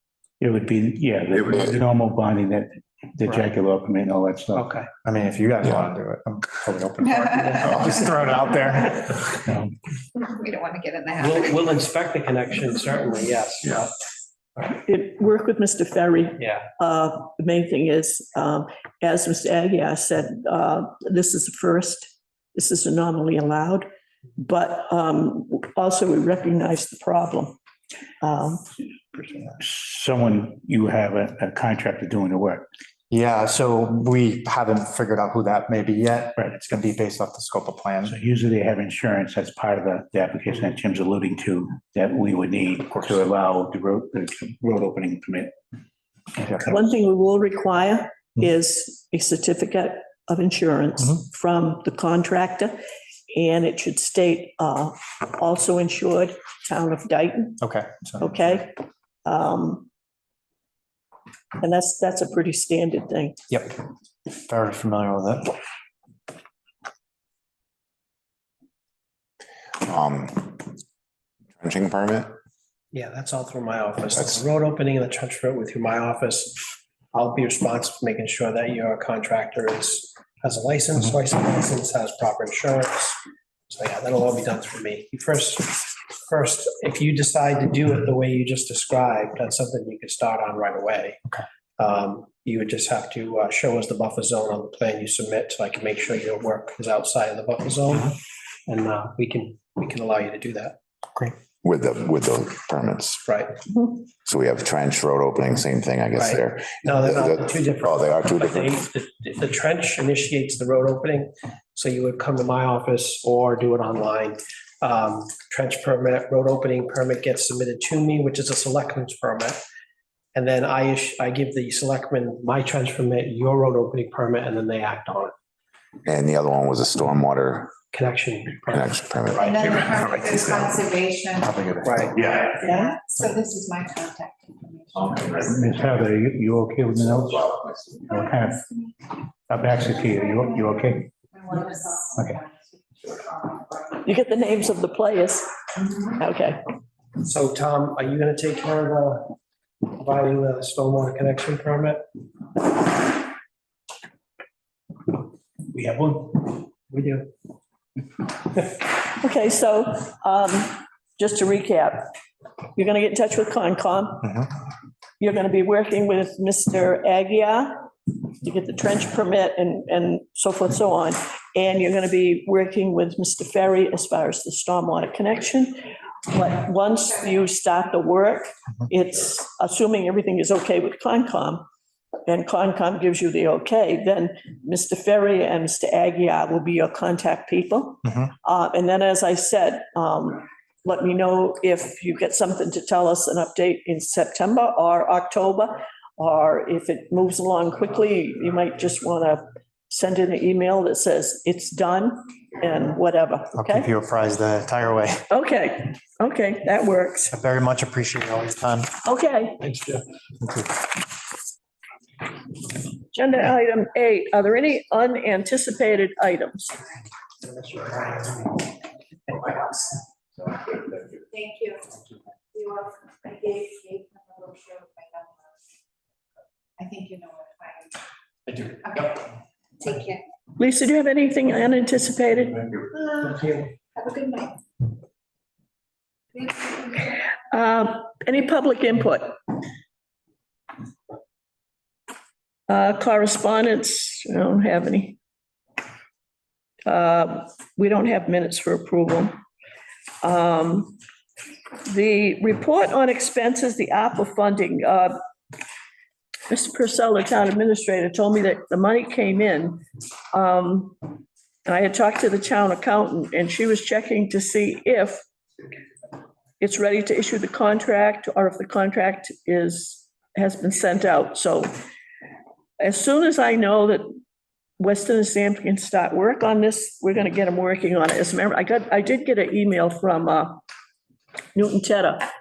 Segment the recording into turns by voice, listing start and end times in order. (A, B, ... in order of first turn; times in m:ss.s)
0:00.4-0:04.6 A
0:04.6-0:09.4 B
0:10.2-0:11.1 C
0:11.2-0:13.9 D
0:14.6-0:23.8 E
0:16.4-0:16.7 D
0:24.4-0:27.6 E
0:28.2-0:28.7 E
0:29.6-0:32.7 A
0:33.1-0:38.2 B
0:38.1-0:45.5 A
0:46.7-0:52.7 E
0:53.3-0:57.6 E
0:57.6-0:58.3 B
0:58.2-0:58.7 E
0:59.2-0:59.9 E
1:01.6-1:03.4 E
1:04.3-1:05.6 B
1:09.8-1:10.7 F
1:11.6-1:12.3 F
1:12.9-1:23.2 D
1:23.7-1:31.2 D
1:31.8-1:40.8 D
1:41.6-1:43.2 F
1:43.3-1:43.6 D
1:44.2-1:48.7 F
1:46.2-1:59.6 D
2:00.3-2:05.3 D
2:06.0-2:07.7 F
2:07.9-2:08.9 D
2:08.7-2:09.7 F
2:09.6-2:11.4 C
2:09.9-2:10.4 B
2:11.3-2:12.2 B
2:11.8-2:12.3 D
2:12.4-2:15.3 C
2:12.6-2:13.0 E
2:15.4-2:18.8 A
2:19.5-2:21.1 A
2:21.5-2:22.1 C
2:22.1-2:22.4 A
2:23.1-2:23.7 C
2:24.0-2:26.6 E
2:27.2-2:29.4 D
2:29.9-2:32.0 D
2:35.7-2:36.5 A
2:36.9-2:37.3 D
2:38.9-2:42.1 E
2:42.8-2:44.4 E
2:45.2-2:55.7 E
2:56.3-3:01.6 E
3:02.3-3:23.8 E
3:23.5-3:25.2 B
3:25.3-3:27.3 E
3:27.3-3:28.9 B
3:29.0-3:29.7 E
3:33.1-3:36.8 E
3:41.3-3:41.8 C
3:42.5-3:45.3 C
3:46.8-3:47.9 C
3:49.8-3:50.2 C
3:50.6-3:52.8 E
3:54.0-3:54.5 C
3:57.5-3:59.4 E
4:02.7-4:05.2 E
4:06.8-4:09.3 E
4:10.2-4:11.0 E
4:11.8-4:15.1 E
4:16.5-4:25.2 E
4:26.6-4:31.7 E
4:32.8-4:34.2 E
4:34.8-4:40.6 E
4:41.5-4:42.2 E